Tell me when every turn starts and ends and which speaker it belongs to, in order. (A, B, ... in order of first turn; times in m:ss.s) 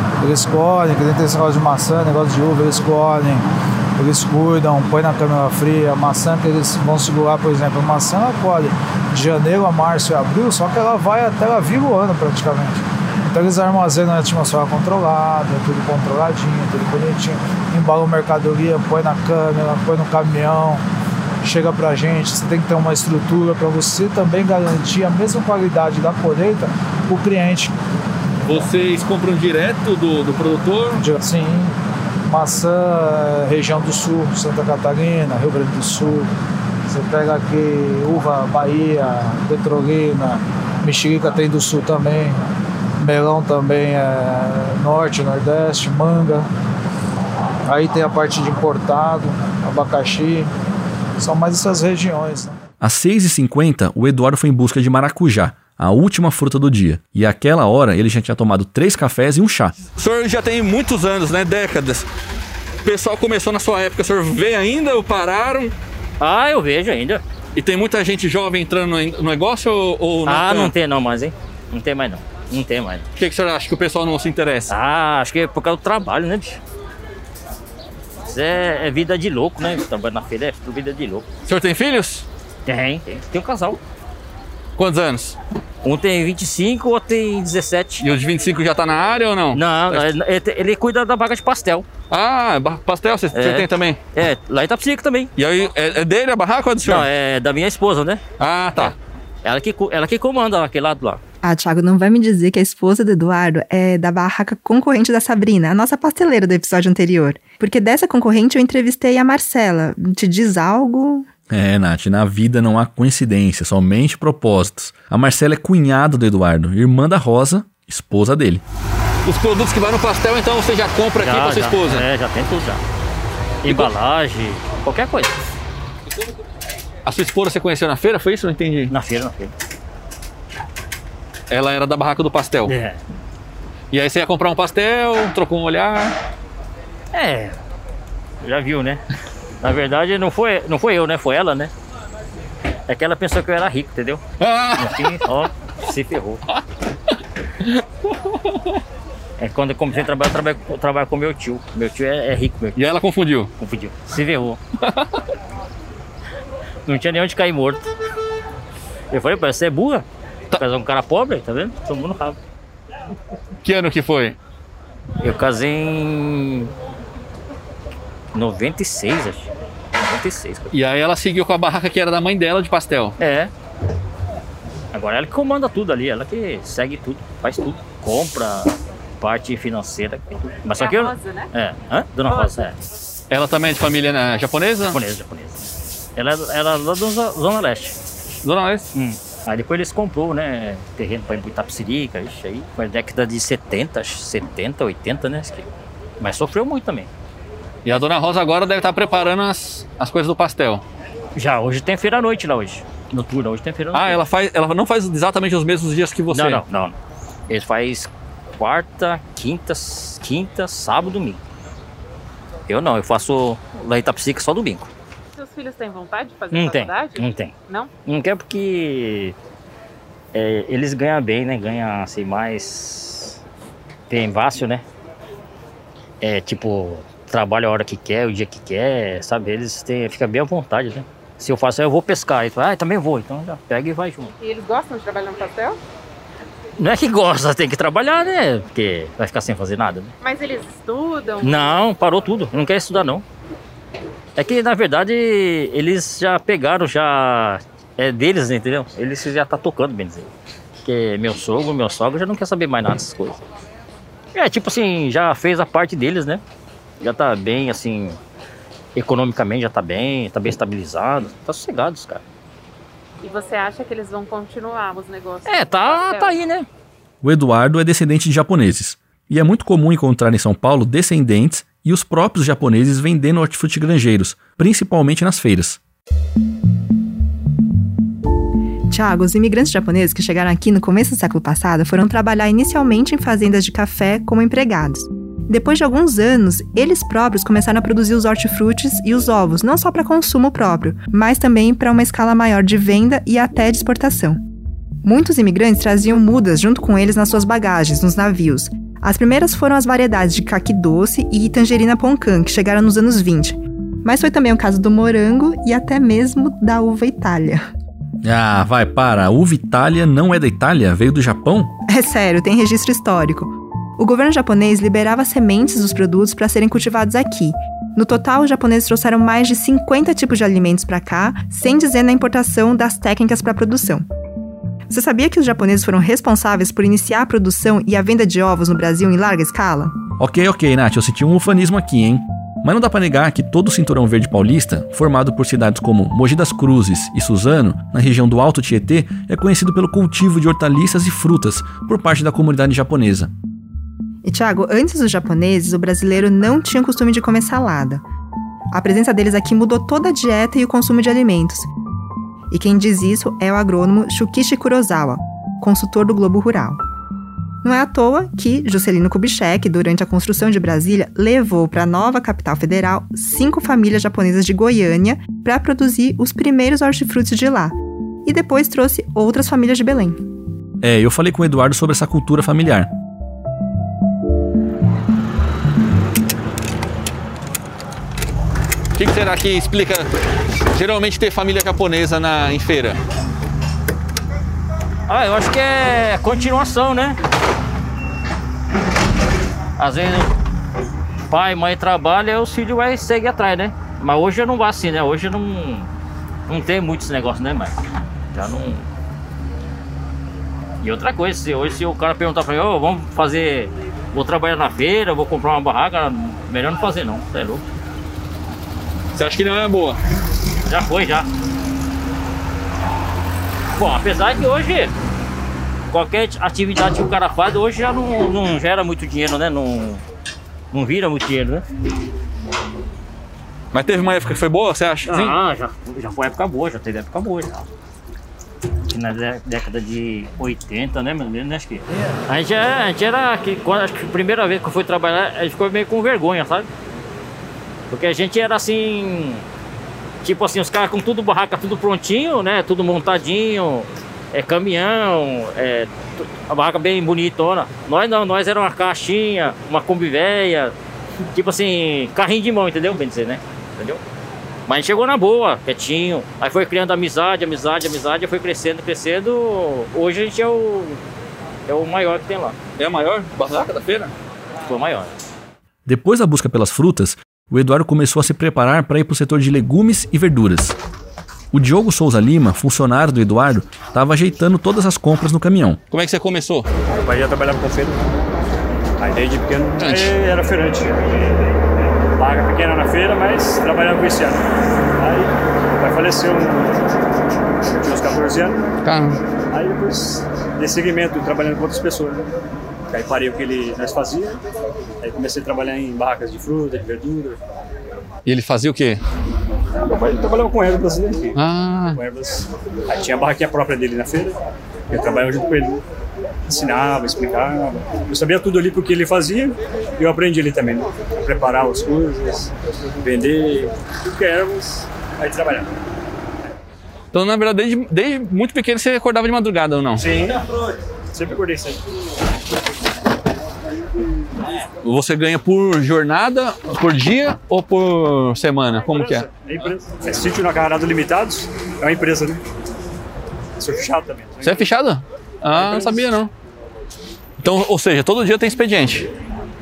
0:00.2-0:03.4 A
0:04.0-0:20.8 A
0:21.4-0:27.7 A
0:28.5-0:31.0 B
0:31.0-0:31.8 A
0:32.3-0:36.3 A
0:36.9-0:42.4 A
0:43.0-0:46.5 A
0:47.7-0:50.5 A
0:51.2-0:52.6 A
0:52.8-0:59.8 C
1:00.0-1:02.1 B
1:02.8-1:05.7 B
1:06.2-1:07.2 D
1:07.6-1:10.7 B
1:10.3-1:13.0 D
1:13.2-1:14.7 B
1:14.7-1:16.6 D
1:18.2-1:21.3 D
1:21.4-1:22.3 B
1:22.7-1:23.8 D
1:24.8-1:25.4 B
1:25.8-1:28.0 D
1:28.0-1:30.1 B
1:29.5-1:31.9 D
1:32.1-1:34.0 B
1:33.3-1:35.3 D
1:35.4-1:37.1 B
1:36.8-1:38.2 D
1:38.4-1:39.0 B
1:38.8-1:41.2 D
1:41.4-1:51.3 E
1:51.5-1:58.6 C
1:59.2-2:02.0 B
2:01.2-2:02.8 D
2:03.6-2:05.4 D
2:07.1-2:08.9 B
2:08.9-2:09.5 D
2:11.5-2:12.7 B
2:12.7-2:13.0 D
2:13.9-2:16.1 B
2:17.1-2:17.6 D
2:18.4-2:19.0 D
2:19.6-2:21.7 D
2:22.9-2:24.2 D
2:24.4-2:25.2 B
2:24.8-2:26.4 D
2:29.4-2:32.8 D
2:32.8-2:33.5 B
2:33.6-2:34.6 D
2:34.8-2:35.1 B
2:36.9-2:37.9 D
2:39.1-2:42.4 D
2:43.6-2:44.4 B
2:45.2-2:46.7 D
2:48.3-2:50.7 D
2:50.7-2:53.2 B
2:53.2-2:53.5 D
2:54.9-3:02.8 D
3:00.8-3:01.5 F
3:03.3-3:05.0 B
3:04.9-3:08.0 D
3:08.4-3:08.9 B
3:08.9-3:15.7 D
3:16.2-3:17.1 D
3:17.8-3:20.8 B
3:21.4-3:24.2 D
3:23.9-3:26.6 B
3:26.3-3:27.0 D
3:27.5-3:31.4 D
3:32.7-3:34.9 D
3:35.3-3:37.9 F
3:36.5-3:37.5 D
3:38.0-3:39.4 D
3:40.3-3:43.4 D
3:44.1-3:44.8 D
3:46.2-3:54.3 D
3:54.4-3:55.8 F
3:56.8-4:00.1 D
4:00.2-4:01.8 F
4:01.4-4:03.2 D
4:04.4-4:10.3 D
4:10.8-4:13.4 D
4:14.3-4:16.4 D
4:17.0-4:18.2 D
4:19.0-4:22.2 D
4:23.2-4:26.4 F
4:25.5-4:26.7 D
4:27.2-4:35.8 C
4:38.9-4:54.4 E
4:55.0-5:07.6 E
5:08.2-5:11.7 C
5:11.9-5:24.0 E
5:24.9-5:30.0 E
5:30.2-5:43.3 C
5:44.2-5:48.0 E
5:48.7-5:51.7 E
5:52.5-5:56.8 E
5:57.6-6:07.7 E
6:08.2-6:10.2 E
6:10.8-6:12.9 C
6:19.0-6:20.1 B
6:20.7-6:23.0 B
6:25.1-6:27.2 D
6:29.8-6:30.3 D
6:31.3-6:35.9 D
6:36.5-6:37.8 D
6:38.3-6:38.9 D
6:40.8-6:47.6 D
6:49.2-6:50.0 B
6:50.6-6:51.3 D
6:53.8-6:54.9 D
6:55.9-7:00.0 D
7:00.7-7:01.7 D
7:03.7-7:05.4 B
7:05.1-7:07.7 D
7:08.9-7:16.7 D
7:17.9-7:19.4 D
7:20.2-7:30.7 D
7:31.3-7:34.0 D
7:34.7-7:41.0 D
7:41.7-7:42.6 D
7:42.8-7:44.1 B
7:44.6-7:45.1 D
7:45.9-7:50.8 C
7:51.5-7:55.8 C
7:55.9-7:56.7 B
7:57.0-7:58.0 G
7:59.0-8:01.2 G
7:59.8-8:00.2 B
8:02.2-8:04.4 G
8:05.0-8:06.8 G
8:07.6-8:08.7 G
8:08.8-8:09.2 B
8:09.5-8:12.3 G
8:12.9-8:14.4 G
8:15.0-8:17.4 G
8:18.3-8:19.0 B
8:19.8-8:21.4 G
8:21.4-8:22.0 B
8:21.9-8:24.4 G
8:24.9-8:25.8 G
8:26.5-8:35.7 G
8:37.1-8:40.0 B
8:40.0-8:40.4 G
8:41.1-8:41.8 G
8:44.8-8:49.3 B
8:48.7-8:52.4 G
8:53.6-8:54.7 G
8:54.4-8:56.3 B
8:55.5-8:56.1 G
8:57.4-8:59.1 B